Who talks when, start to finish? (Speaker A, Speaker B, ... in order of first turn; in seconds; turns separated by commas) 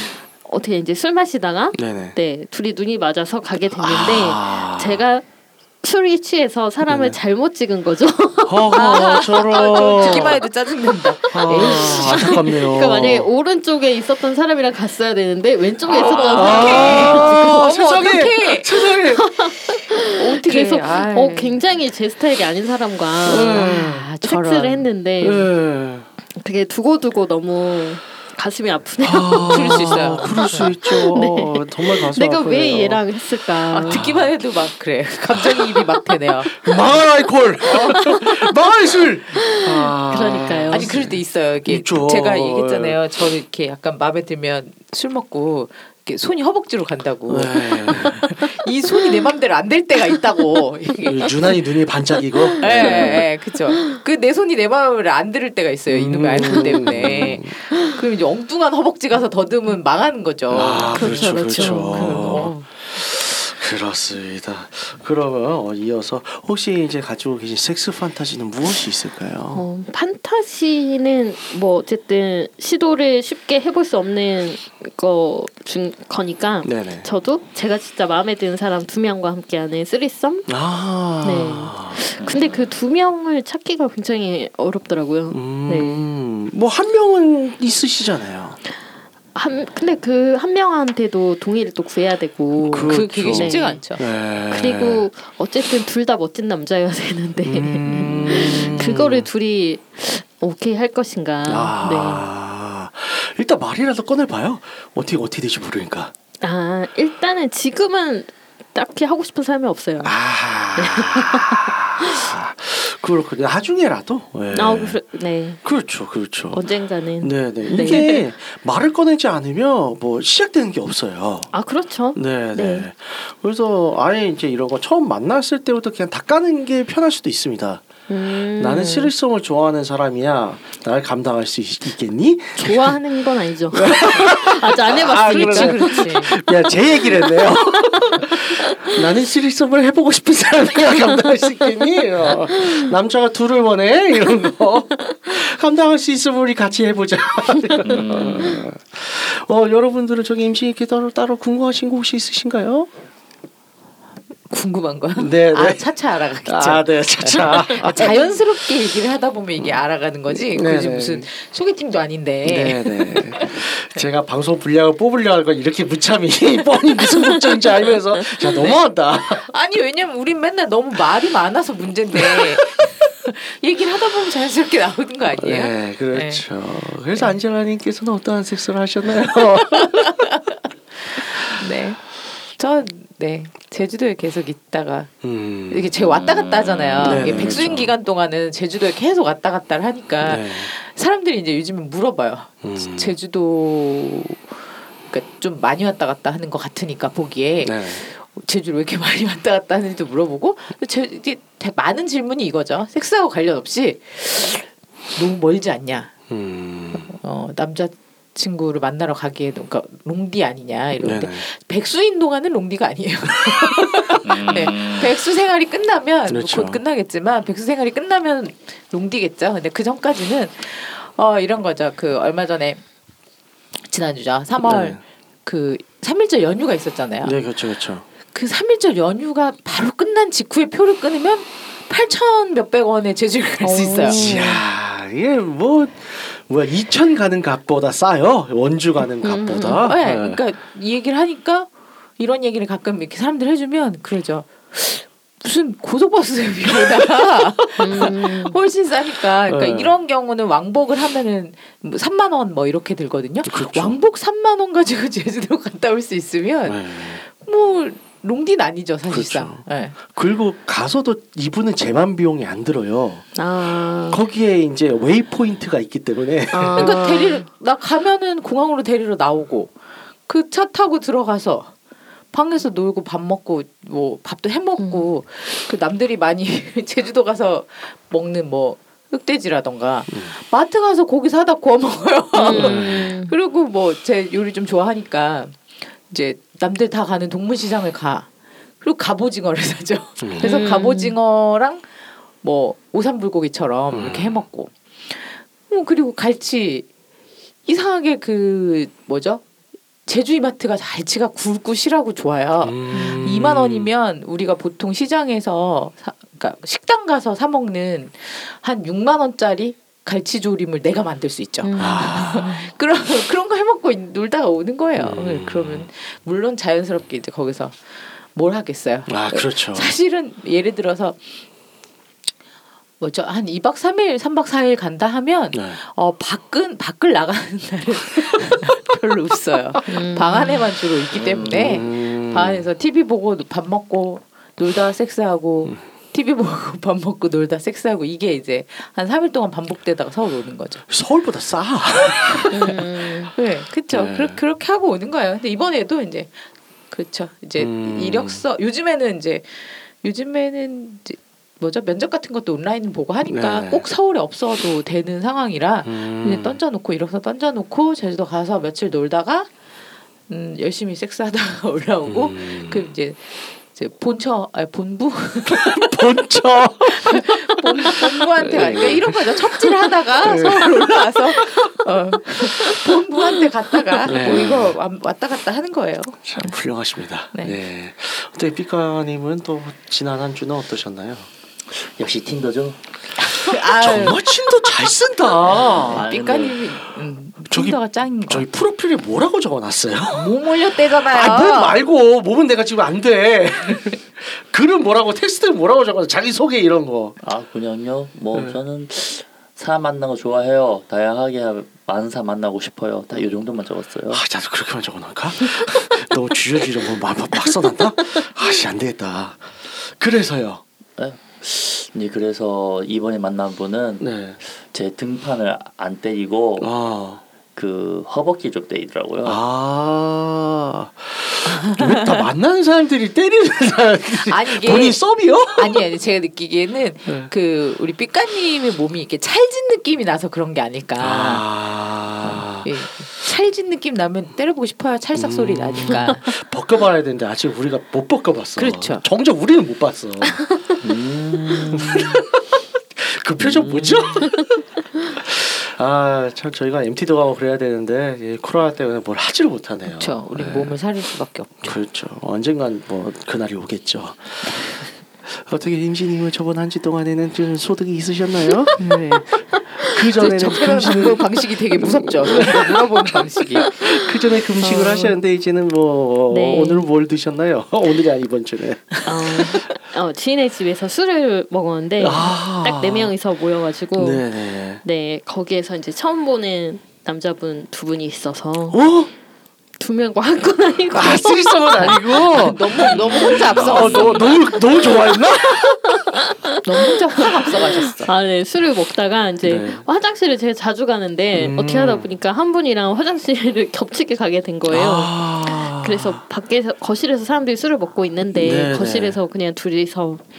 Speaker A: 0.4-5.2, Speaker B: 1.7-2.1, Speaker B: 3.7-5.0, Speaker A: 5.8-10.2, Speaker B: 6.9-7.2, Speaker B: 8.5-10.4, Speaker C: 8.7-12.5, Speaker B: 11.3-13.3, Speaker A: 11.4-17.7, Speaker C: 15.8-18.7, Speaker B: 16.1-19.5, Speaker A: 19.1-25.5, Speaker C: 20.1-21.6, Speaker B: 23.2-24.1, Speaker C: 23.5-24.9, Speaker B: 25.2-26.1, Speaker A: 26.4-34.1, Speaker B: 29.0-33.0, Speaker C: 29.4-31.0, Speaker C: 33.7-37.0, Speaker B: 33.8-34.3, Speaker B: 35.3-35.7, Speaker B: 36.5-43.0, Speaker C: 37.7-38.0, Speaker A: 39.5-40.9, Speaker C: 40.7-51.6, Speaker B: 47.3-48.2, Speaker B: 51.0-53.3, Speaker C: 52.6-62.7, Speaker A: 52.7-53.2, Speaker B: 55.9-57.5, Speaker B: 60.5-69.6, Speaker A: 60.9-62.5, Speaker A: 69.5-80.5, Speaker B: 76.6-77.1, Speaker B: 80.5-82.0, Speaker A: 81.2-86.0, Speaker D: 82.2-82.6, Speaker B: 85.3-88.6, Speaker A: 89.3-93.8, Speaker B: 92.7-95.0, Speaker C: 92.8-94.0, Speaker A: 94.5-102.3, Speaker B: 97.4-99.3, Speaker B: 101.5-106.1, Speaker A: 106.4-110.1, Speaker B: 110.0-115.0, Speaker A: 110.8-112.3, Speaker A: 114.5-115.6, Speaker B: 115.6-116.6, Speaker A: 116.5-118.2, Speaker B: 117.2-121.5, Speaker A: 121.5-122.9, Speaker B: 122.1-127.8, Speaker A: 128.1-129.1, Speaker B: 128.6-133.0, Speaker A: 132.6-136.4, Speaker B: 133.7-152.9, Speaker C: 135.3-136.1, Speaker D: 147.8-148.6, Speaker C: 154.5-163.6, Speaker B: 155.2-158.3, Speaker B: 160.3-161.3, Speaker B: 162.4-169.5, Speaker C: 168.4-168.8, Speaker C: 169.4-176.4, Speaker B: 172.2-172.6, Speaker B: 175.3-180.3, Speaker C: 179.8-194.6, Speaker B: 185.2-185.9, Speaker D: 186.0-187.8, Speaker B: 187.0-187.9, Speaker B: 190.2-190.7, Speaker B: 192.6-193.2, Speaker C: 195.1-206.1, Speaker B: 197.6-198.0, Speaker B: 206.3-207.1, Speaker C: 207.0-222.8, Speaker B: 210.9-211.4, Speaker D: 214.2-215.2, Speaker B: 216.3-216.8, Speaker C: 223.9-227.4, Speaker B: 224.6-225.0, Speaker B: 227.2-228.1, Speaker C: 228.3-234.6, Speaker A: 233.6-234.4, Speaker B: 234.0-240.4, Speaker A: 239.2-239.8, Speaker C: 239.8-260.0, Speaker A: 247.8-248.6, Speaker B: 249.4-249.9, Speaker B: 253.4-254.0, Speaker B: 256.6-257.2, Speaker B: 259.1-263.3, Speaker A: 263.3-264.2, Speaker B: 264.0-267.1, Speaker A: 266.5-267.4, Speaker C: 266.8-269.7, Speaker C: 270.3-271.7, Speaker C: 272.3-288.3, Speaker A: 274.8-275.1, Speaker B: 280.1-280.4, Speaker A: 282.3-283.3, Speaker B: 282.5-283.1, Speaker C: 288.8-291.9, Speaker B: 290.2-290.5, Speaker A: 290.4-291.2, Speaker C: 292.4-296.9, Speaker B: 293.9-294.4, Speaker C: 297.6-299.4, Speaker C: 300.1-317.8, Speaker B: 302.6-303.9, Speaker A: 302.9-303.2, Speaker A: 311.6-312.6, Speaker B: 311.8-312.5, Speaker B: 314.9-315.9, Speaker C: 318.3-321.2, Speaker B: 319.1-319.9, Speaker C: 323.0-340.9, Speaker B: 325.5-325.8, Speaker A: 329.9-330.6, Speaker D: 331.1-331.8, Speaker B: 331.4-332.7, Speaker B: 340.9-342.8, Speaker C: 342.4-359.5, Speaker A: 342.5-343.3, Speaker B: 343.9-344.4, Speaker B: 347.6-348.4, Speaker B: 353.2-353.9, Speaker B: 355.8-356.6, Speaker C: 360.3-365.9, Speaker B: 362.1-362.9, Speaker B: 365.5-371.7, Speaker C: 366.9-376.5, Speaker B: 372.3-372.9, Speaker B: 374.0-374.8, Speaker D: 374.2-374.5, Speaker B: 376.3-381.3, Speaker D: 381.7-382.8, Speaker C: 383.2-384.7, Speaker B: 383.4-386.1, Speaker C: 385.4-388.5, Speaker D: 385.6-386.7, Speaker B: 387.5-397.1, Speaker C: 390.1-391.8, Speaker D: 397.2-404.2, Speaker B: 404.1-410.6, Speaker D: 411.0-414.1, Speaker B: 414.0-414.4, Speaker D: 414.6-416.7, Speaker B: 416.6-417.2, Speaker D: 417.5-419.4, Speaker B: 419.2-425.9, Speaker C: 424.1-431.4, Speaker B: 431.0-432.9, Speaker C: 432.2-436.4, Speaker B: 435.1-440.4, Speaker C: 438.6-439.0, Speaker D: 440.8-442.2, Speaker B: 441.7-444.4, Speaker D: 443.4-444.3, Speaker B: 445.1-450.8, Speaker C: 449.9-451.8, Speaker B: 451.6-469.6, Speaker A: 458.8-459.2, Speaker C: 460.1-463.7, Speaker A: 464.6-465.1, Speaker A: 466.3-466.9, Speaker A: 469.0-474.2, Speaker B: 472.0-473.1, Speaker B: 474.0-474.8, Speaker A: 474.8-478.8, Speaker B: 478.7-479.1, Speaker A: 479.8-482.1, Speaker B: 480.9-486.0, Speaker C: 481.8-484.6, Speaker D: 482.8-484.3, Speaker A: 484.5-500.2, Speaker C: 486.6-488.1, Speaker B: 489.4-489.8, Speaker B: 491.4-492.1, Speaker B: 494.7-496.2, Speaker B: 498.3-499.2